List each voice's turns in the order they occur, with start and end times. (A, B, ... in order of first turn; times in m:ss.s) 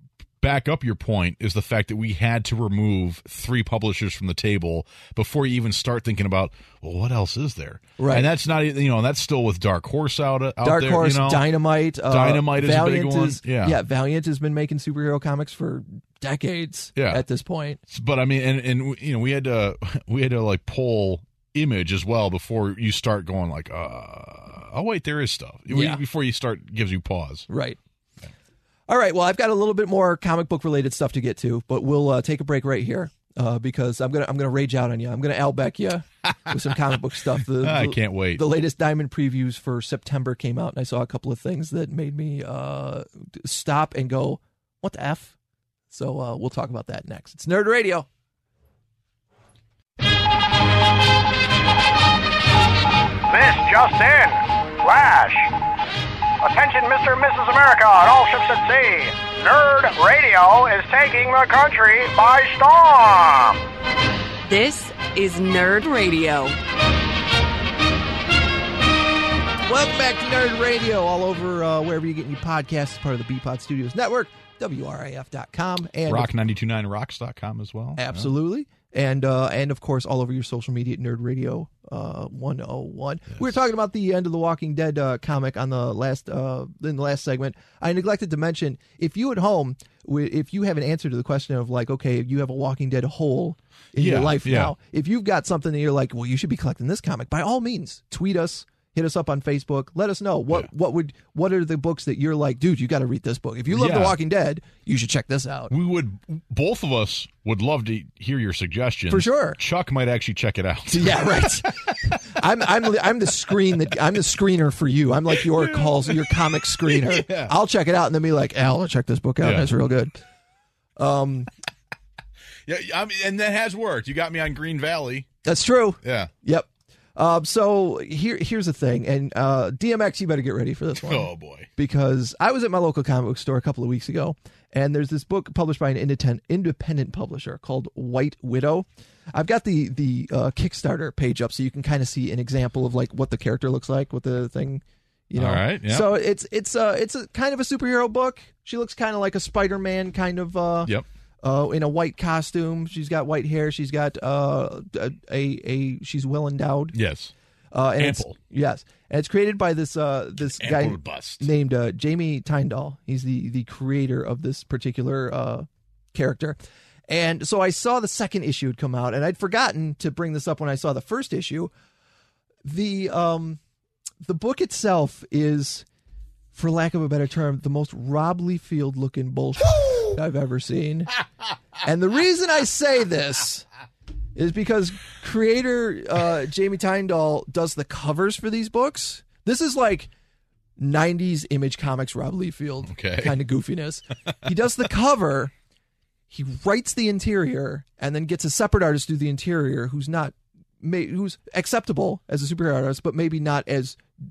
0:00.4-0:11.5 A
0:08.0-0:08.3 B
0:10.6-0:17.8 B
0:12.1-0:13.8 A
0:17.0-0:17.2 A
0:17.9-0:27.5 A
0:25.7-0:26.0 B
0:27.5-0:27.8 B
0:28.9-0:45.3 B
0:37.6-0:38.4 A
0:45.9-0:48.1 B
0:53.3-0:55.5 C
0:56.4-1:03.7 C
1:04.4-1:06.6 D
1:09.6-1:16.3 B
1:16.1-1:18.3 A
1:18.0-1:45.7 B
1:34.0-1:34.7 A
1:43.7-1:44.2 A
1:45.7-1:52.1 A
1:49.1-1:49.6 B
1:50.9-2:00.2 B
1:55.3-1:57.5 A
1:59.4-1:59.7 A
2:01.0-2:01.5 B
2:02.7-2:05.3 A
2:05.4-2:37.0 B
2:06.0-2:06.3 A
2:11.0-2:11.7 A
2:25.4-2:26.1 A
2:36.9-2:37.3 A
2:37.7-2:46.6 B
2:38.0-2:38.4 A
2:40.6-2:41.5 A
2:47.1-2:51.7 B
2:52.6-2:53.6 B
2:54.2-2:55.8 B
2:56.5-3:01.1 B
3:01.8-3:03.7 B
3:04.4-3:10.1 B
3:10.8-3:15.5 B
3:12.8-3:13.4 A
3:16.3-3:24.0 B